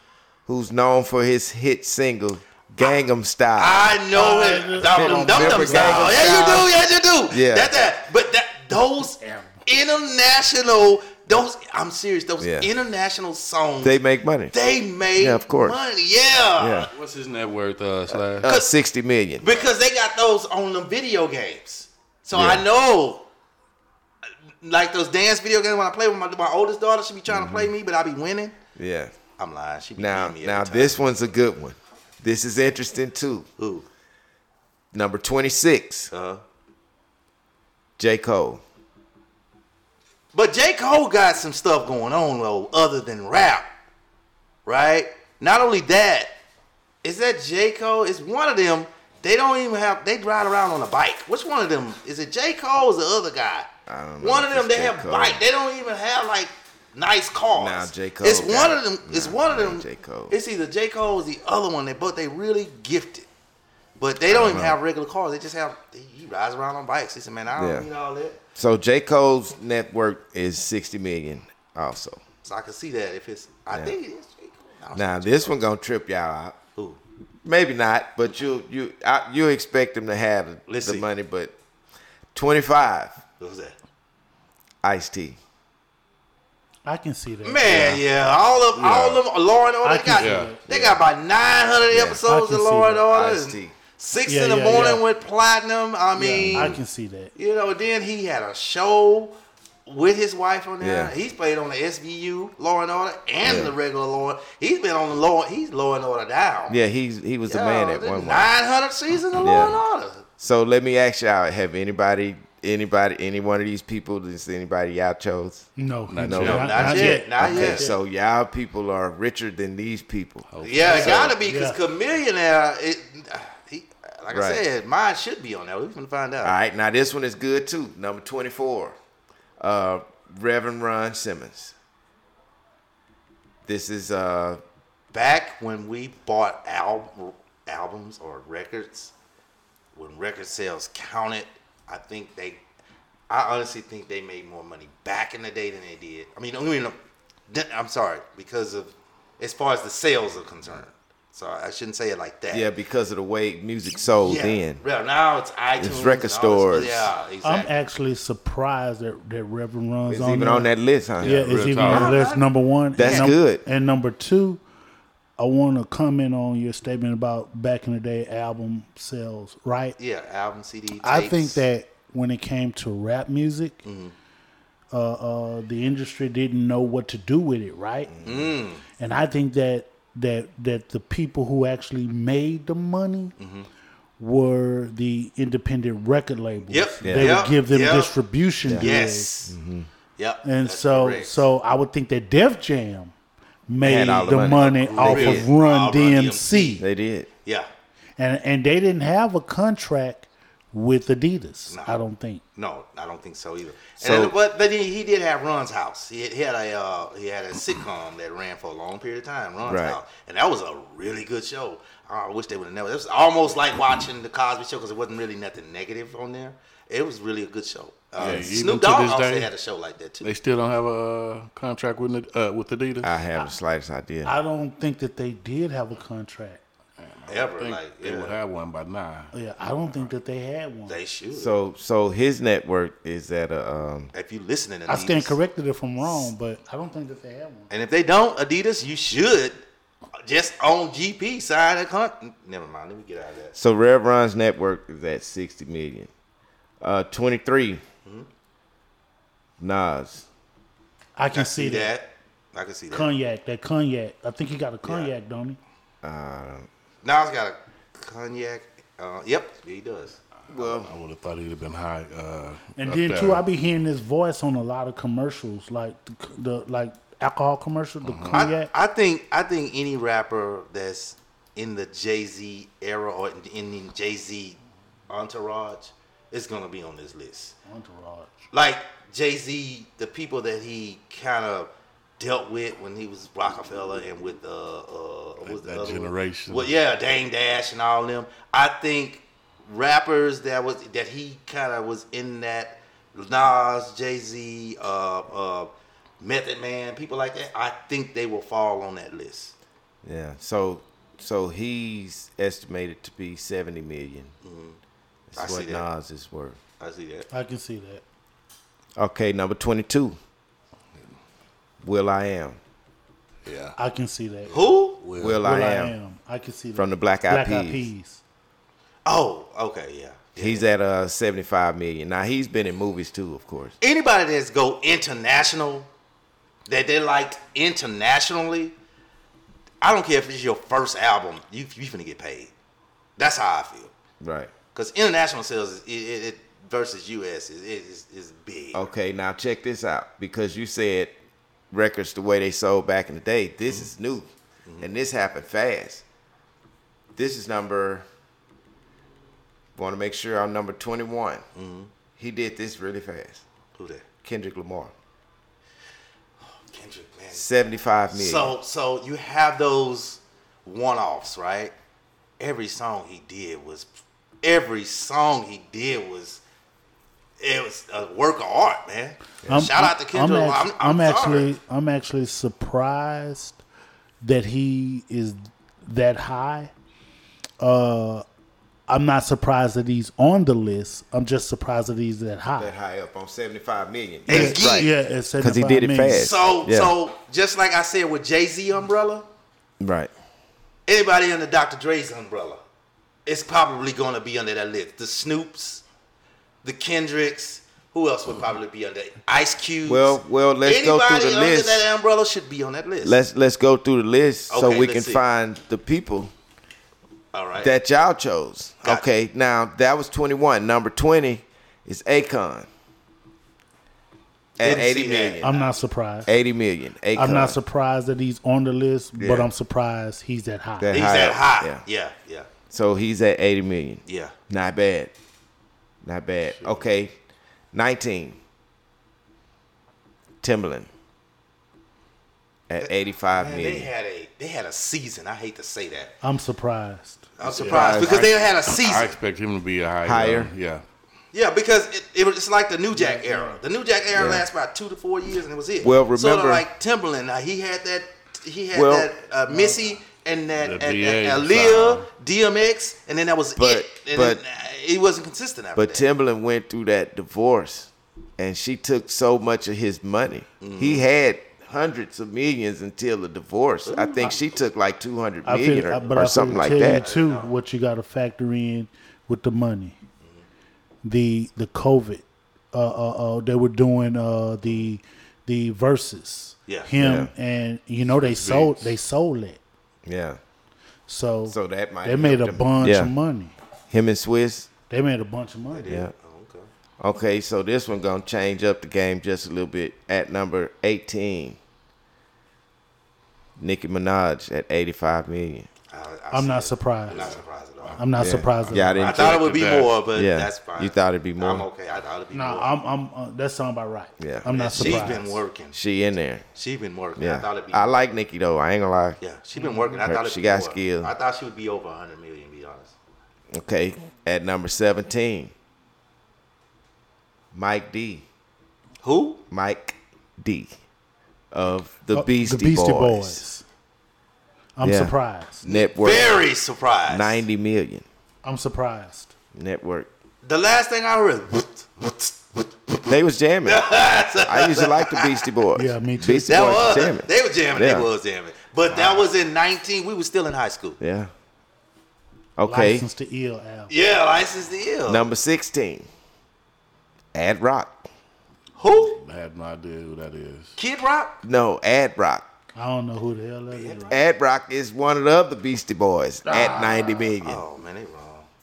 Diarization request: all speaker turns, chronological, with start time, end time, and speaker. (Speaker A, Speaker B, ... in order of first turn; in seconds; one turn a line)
Speaker A: 0.5-4.0
Speaker B: 3.6-14.0
Speaker C: 4.1-6.7
Speaker A: 4.8-6.7
Speaker A: 7.3-7.7
Speaker C: 9.2-9.6
Speaker A: 12.4-12.7
Speaker A: 13.8-14.5
Speaker B: 14.5-16.9
Speaker A: 15.2-15.8
Speaker A: 16.6-16.9
Speaker D: 16.9-18.5
Speaker A: 18.4-19.4
Speaker B: 18.4-18.7
Speaker B: 19.4-23.2
Speaker A: 22.3-22.6
Speaker B: 24.6-28.5
Speaker A: 27.3-27.7
Speaker A: 28.8-29.1
Speaker B: 29.4-30.9
Speaker A: 30.0-33.5
Speaker B: 33.6-33.9
Speaker A: 34.9-36.1
Speaker B: 36.1-36.4
Speaker A: 38.0-38.6
Speaker B: 40.3-43.7
Speaker B: 44.6-46.3
Speaker B: 47.0-53.7
Speaker A: 53.9-55.4
Speaker B: 54.2-63.3
Speaker A: 57.5-60.4
Speaker B: 64.0-68.4
Speaker A: 64.2-64.8
Speaker A: 67.5-67.9
Speaker A: 68.5-72.2
Speaker B: 72.4-75.5
Speaker A: 74.9-76.5
Speaker A: 77.4-81.5
Speaker B: 80.7-81.0
Speaker A: 82.3-83.2
Speaker B: 83.4-83.7
Speaker A: 84.8-85.4
Speaker C: 86.8-88.0
Speaker B: 87.4-96.7
Speaker D: 88.7-89.2
Speaker C: 89.8-90.6
Speaker D: 90.1-90.5
Speaker A: 90.7-91.0
Speaker A: 91.9-92.2
Speaker C: 92.2-93.0
Speaker A: 93.1-93.7
Speaker C: 94.3-95.0
Speaker C: 96.2-97.3
Speaker D: 96.5-96.8
Speaker B: 97.3-99.3
Speaker B: 99.9-106.8
Speaker A: 100.8-101.1
Speaker A: 103.4-103.7
Speaker A: 106.7-108.5
Speaker B: 107.5-110.2
Speaker A: 109.4-109.8
Speaker A: 110.4-115.7
Speaker C: 115.8-117.9
Speaker D: 116.1-117.2
Speaker A: 116.2-120.5
Speaker B: 116.3-117.9
Speaker D: 120.5-121.2
Speaker B: 120.6-126.5
Speaker C: 120.8-121.8
Speaker A: 124.3-124.6
Speaker A: 126.4-128.9
Speaker A: 129.6-131.7
Speaker A: 133.6-134.6
Speaker B: 135.1-139.1
Speaker B: 139.9-142.6
Speaker B: 143.3-146.9
Speaker B: 147.5-152.7
Speaker A: 152.5-154.8
Speaker B: 154.2-157.7
Speaker A: 155.8-157.1
Speaker C: 157.4-160.7
Speaker A: 160.1-161.6
Speaker D: 161.2-162.2
Speaker C: 161.2-164.6
Speaker B: 161.8-163.3
Speaker A: 162.9-163.6
Speaker C: 165.4-169.9
Speaker B: 170.0-171.6
Speaker C: 171.0-173.8
Speaker B: 173.8-174.1
Speaker C: 174.9-178.1
Speaker A: 178.1-178.5
Speaker B: 178.2-178.8
Speaker C: 179.0-183.3
Speaker B: 183.4-183.7
Speaker C: 184.2-189.3
Speaker B: 186.7-188.2
Speaker A: 187.0-187.4
Speaker B: 188.7-189.6
Speaker A: 189.5-189.9
Speaker B: 190.2-191.4
Speaker C: 190.4-193.1
Speaker C: 193.7-196.8
Speaker A: 193.8-195.5
Speaker B: 193.9-196.8
Speaker A: 196.8-197.3
Speaker C: 198.2-202.4
Speaker B: 201.7-202.0
Speaker B: 202.6-220.3
Speaker A: 204.0-204.3
Speaker A: 209.6-210.0
Speaker A: 218.2-218.6
Speaker D: 218.2-219.5
Speaker D: 220.2-223.1
Speaker A: 223.0-224.3
Speaker C: 224.2-226.6
Speaker D: 227.0-229.3
Speaker B: 227.3-228.4
Speaker C: 229.3-230.9
Speaker B: 230.9-231.6
Speaker A: 231.3-234.1
Speaker B: 234.1-235.4
Speaker C: 234.9-237.7
Speaker B: 237.7-239.6
Speaker B: 240.2-243.6
Speaker A: 243.6-246.1
Speaker A: 246.8-247.8
Speaker A: 249.6-250.2
Speaker C: 251.2-251.9
Speaker B: 251.3-253.1
Speaker C: 252.9-255.6
Speaker B: 254.8-255.1
Speaker A: 256.0-256.7
Speaker B: 257.0-260.2
Speaker A: 260.5-260.9
Speaker D: 260.5-263.4
Speaker C: 262.8-268.7
Speaker D: 268.0-268.4
Speaker B: 268.3-274.6
Speaker B: 275.1-277.6
Speaker C: 277.7-278.3
Speaker B: 278.5-299.6
Speaker D: 285.4-286.7
Speaker A: 300.0-304.3
Speaker B: 304.4-304.8
Speaker A: 305.3-306.6
Speaker B: 305.4-305.9
Speaker B: 306.8-307.3
Speaker C: 307.3-308.0
Speaker A: 309.0-310.2
Speaker A: 311.8-312.6
Speaker D: 313.4-313.8
Speaker C: 313.8-314.7
Speaker B: 314.5-315.0
Speaker D: 315.0-315.4
Speaker A: 315.2-315.9
Speaker C: 315.4-318.2
Speaker A: 316.7-317.9
Speaker B: 319.1-320.6
Speaker A: 320.4-323.7
Speaker B: 323.8-325.9
Speaker B: 326.7-328.7
Speaker B: 329.8-332.5
Speaker B: 333.2-333.9
Speaker A: 334.2-334.5
Speaker B: 334.7-338.8
Speaker A: 338.7-341.1
Speaker A: 341.7-344.3
Speaker A: 344.8-346.0
Speaker A: 347.1-348.1
Speaker A: 349.8-351.4
Speaker B: 351.6-351.9
Speaker A: 352.2-353.4
Speaker B: 353.7-354.1
Speaker A: 354.2-354.9
Speaker B: 356.4-357.4
Speaker A: 357.3-358.5
Speaker B: 358.1-361.7
Speaker B: 362.4-363.9
Speaker B: 364.4-366.4
Speaker B: 367.4-371.5
Speaker C: 369.5-373.6
Speaker C: 374.2-376.7
Speaker C: 377.6-378.2
Speaker C: 378.9-382.7
Speaker A: 382.6-386.9
Speaker B: 384.3-384.9
Speaker C: 384.3-386.3
Speaker B: 386.1-389.2
Speaker A: 389.8-390.1
Speaker B: 390.9-392.6
Speaker B: 393.2-395.8
Speaker B: 396.6-403.2
Speaker A: 399.9-401.8
Speaker A: 403.0-406.3
Speaker B: 404.5-405.2
Speaker B: 407.3-407.7
Speaker A: 407.6-412.7
Speaker A: 414.6-415.5
Speaker B: 414.6-415.7
Speaker C: 415.4-416.3
Speaker A: 416.2-417.6
Speaker C: 417.1-421.0
Speaker A: 419.2-419.5
Speaker A: 420.8-421.8
Speaker B: 420.9-422.5
Speaker A: 422.7-425.1
Speaker B: 424.1-424.3
Speaker A: 426.0-427.2
Speaker A: 427.7-428.4
Speaker A: 430.4-430.9
Speaker A: 432.7-433.9
Speaker B: 432.8-436.1
Speaker C: 436.2-437.3
Speaker B: 437.4-439.2
Speaker D: 437.5-440.8
Speaker A: 437.6-438.3
Speaker A: 440.0-440.5
Speaker B: 441.3-456.1
Speaker C: 442.9-443.6
Speaker A: 444.1-444.5
Speaker A: 445.8-446.6
Speaker A: 448.7-449.1
Speaker C: 449.5-449.9
Speaker D: 450.6-452.1
Speaker A: 453.6-454.4
Speaker A: 455.8-467.1
Speaker B: 460.6-461.1
Speaker B: 463.8-464.6
Speaker C: 465.4-470.0
Speaker B: 466.6-467.5
Speaker C: 471.1-479.6
Speaker A: 477.0-477.3
Speaker D: 478.2-478.9
Speaker A: 480.1-480.4
Speaker C: 481.1-483.5
Speaker A: 481.5-483.1
Speaker A: 483.9-484.7
Speaker C: 484.9-486.0
Speaker B: 485.7-486.7
Speaker A: 487.0-491.6
Speaker A: 493.6-495.7
Speaker B: 495.9-498.0
Speaker C: 496.3-497.3
Speaker D: 497.1-498.0
Speaker C: 498.0-499.1
Speaker A: 498.2-499.5
Speaker D: 498.6-499.9
Speaker B: 499.0-502.7
Speaker A: 500.1-501.7
Speaker C: 502.3-505.4
Speaker A: 504.2-505.1
Speaker B: 504.5-505.8
Speaker A: 505.7-506.4
Speaker B: 506.6-507.9
Speaker A: 507.2-509.2
Speaker B: 509.2-512.9
Speaker C: 509.6-509.9
Speaker A: 510.0-511.1
Speaker A: 513.5-515.5
Speaker A: 517.5-518.2
Speaker B: 519.0-519.4
Speaker A: 519.5-520.7
Speaker A: 521.5-523.4
Speaker C: 522.1-523.6
Speaker C: 524.8-525.6
Speaker A: 524.8-526.4
Speaker B: 525.6-527.4
Speaker A: 527.1-528.0
Speaker C: 528.4-529.3
Speaker A: 529.5-530.1
Speaker B: 530.4-532.7
Speaker A: 533.1-538.1
Speaker B: 533.6-535.5
Speaker C: 535.7-536.8
Speaker B: 536.5-541.0
Speaker A: 541.0-541.3
Speaker A: 542.6-543.1
Speaker C: 542.6-543.9
Speaker B: 543.9-545.3
Speaker A: 545.1-546.1
Speaker A: 547.3-548.0
Speaker B: 548.8-549.2
Speaker D: 549.1-550.8
Speaker B: 550.8-551.4
Speaker A: 551.4-552.4
Speaker C: 552.7-554.1
Speaker B: 553.7-554.2
Speaker A: 554.1-557.6
Speaker C: 556.5-557.3
Speaker B: 557.4-558.5